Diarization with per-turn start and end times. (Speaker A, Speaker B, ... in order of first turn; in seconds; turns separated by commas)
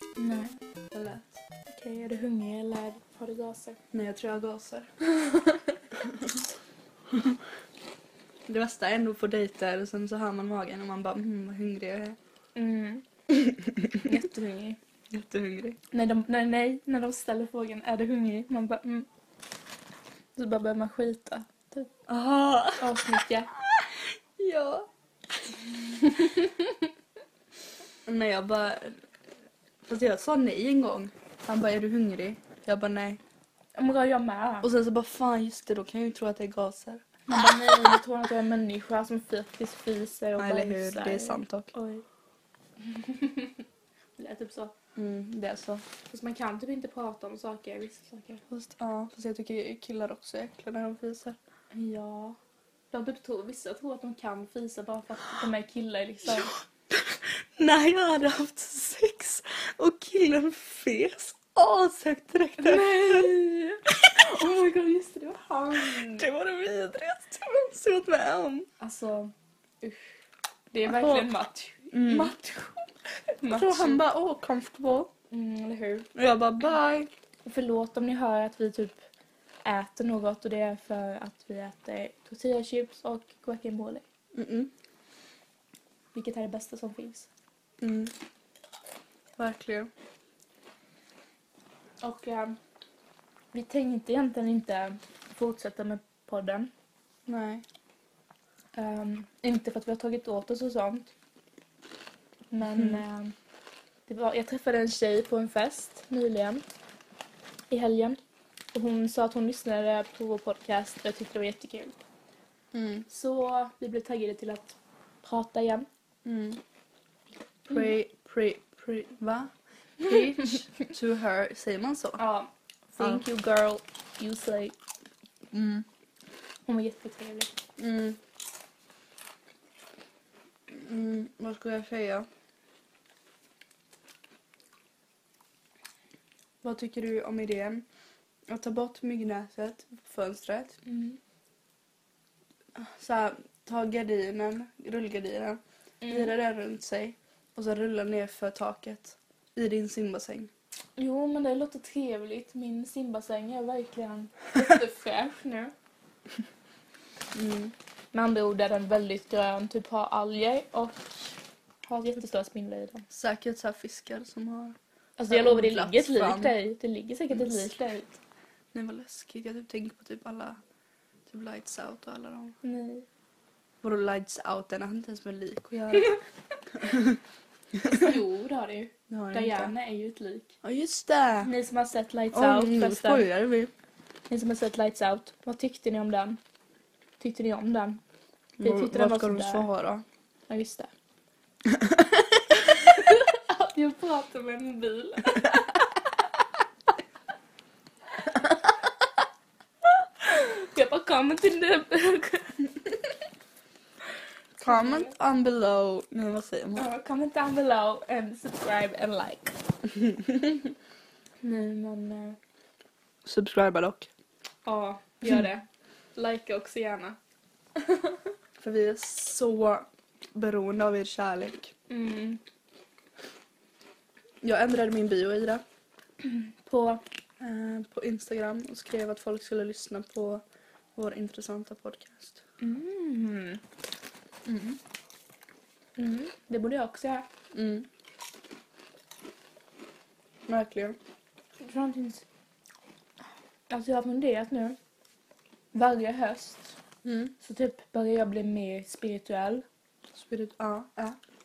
Speaker A: 0.2-0.5, Speaker B: 0.9-1.4, Speaker A: 1.7-3.8, Speaker B: 3.9-5.4, Speaker B: 5.9-6.4, Speaker B: 7.1-7.4, Speaker B: 8.5-12.2, Speaker A: 12.5-13.0, Speaker B: 13.3-14.1, Speaker A: 14.0-14.8, Speaker B: 15.1-15.8, Speaker A: 15.9-19.1, Speaker A: 20.4-21.9, Speaker B: 22.1-24.9, Speaker A: 22.8-23.5, Speaker A: 25.7-26.9, Speaker B: 28.1-29.0, Speaker B: 29.9-33.2, Speaker A: 33.8-34.7, Speaker B: 34.6-38.0, Speaker A: 37.3-42.0, Speaker B: 40.4-41.7, Speaker A: 42.8-43.6, Speaker A: 44.2-44.7, Speaker B: 45.0-45.8, Speaker A: 46.1-48.4, Speaker B: 48.5-51.4, Speaker A: 51.7-52.4, Speaker A: 52.9-56.5, Speaker B: 56.3-63.3, Speaker A: 62.6-66.3, Speaker B: 65.7-68.7, Speaker A: 68.8-70.1, Speaker A: 70.7-74.0, Speaker B: 70.8-71.3, Speaker B: 71.9-72.3, Speaker B: 73.4-75.1, Speaker A: 75.3-76.1, Speaker B: 76.1-77.1, Speaker A: 77.4-79.0, Speaker A: 79.6-84.0, Speaker B: 84.3-84.7, Speaker A: 86.1-87.3, Speaker B: 87.8-88.1, Speaker B: 89.4-89.9, Speaker A: 92.0-92.6, Speaker A: 93.5-96.7, Speaker B: 97.3-97.6, Speaker A: 98.8-101.1, Speaker A: 102.5-103.3, Speaker B: 102.6-103.0, Speaker A: 104.1-106.7, Speaker A: 107.7-108.2, Speaker A: 108.7-112.0, Speaker B: 112.7-113.0, Speaker A: 113.1-115.9, Speaker B: 116.2-116.6, Speaker B: 117.7-119.5, Speaker A: 117.7-117.9, Speaker B: 120.0-122.2, Speaker A: 122.2-124.8, Speaker B: 125.5-125.8, Speaker A: 126.7-127.5, Speaker B: 127.8-128.2, Speaker B: 130.7-132.3, Speaker B: 136.6-137.8, Speaker B: 138.5-140.8, Speaker A: 140.8-141.2, Speaker B: 142.7-150.5, Speaker A: 146.0-146.3, Speaker A: 151.0-155.7, Speaker B: 157.3-157.7, Speaker A: 158.1-163.0, Speaker B: 163.1-164.8, Speaker A: 165.2-168.2, Speaker B: 165.3-166.6, Speaker B: 167.3-167.7, Speaker B: 168.7-170.6, Speaker B: 171.3-172.6, Speaker A: 172.6-173.0, Speaker B: 173.8-176.1, Speaker B: 176.7-177.2, Speaker B: 177.7-178.2, Speaker A: 177.9-180.5, Speaker B: 179.1-179.7, Speaker B: 180.6-181.5, Speaker A: 181.4-183.2, Speaker B: 182.3-183.7, Speaker A: 184.3-186.4, Speaker A: 187.2-188.0, Speaker B: 188.6-190.0, Speaker A: 188.6-189.7, Speaker A: 190.5-190.9, Speaker B: 191.7-192.4, Speaker A: 192.5-195.9, Speaker A: 200.2-202.7, Speaker B: 204.6-206.9, Speaker A: 204.6-205.1, Speaker A: 206.7-209.6, Speaker B: 210.0-210.4, Speaker A: 211.4-212.4, Speaker B: 213.2-214.1, Speaker A: 214.6-217.2, Speaker A: 217.8-218.2, Speaker B: 218.6-221.7, Speaker A: 221.9-222.4, Speaker B: 224.4-225.6, Speaker A: 226.2-227.0, Speaker B: 227.4-230.4, Speaker B: 230.9-232.4, Speaker A: 232.6-233.6, Speaker B: 234.5-234.8, Speaker A: 236.0-237.2, Speaker B: 237.5-237.9, Speaker B: 240.5-241.0, Speaker A: 241.6-242.2, Speaker A: 243.7-244.8, Speaker A: 245.7-246.8, Speaker B: 247.0-247.3, Speaker A: 247.4-249.6, Speaker B: 250.1-251.2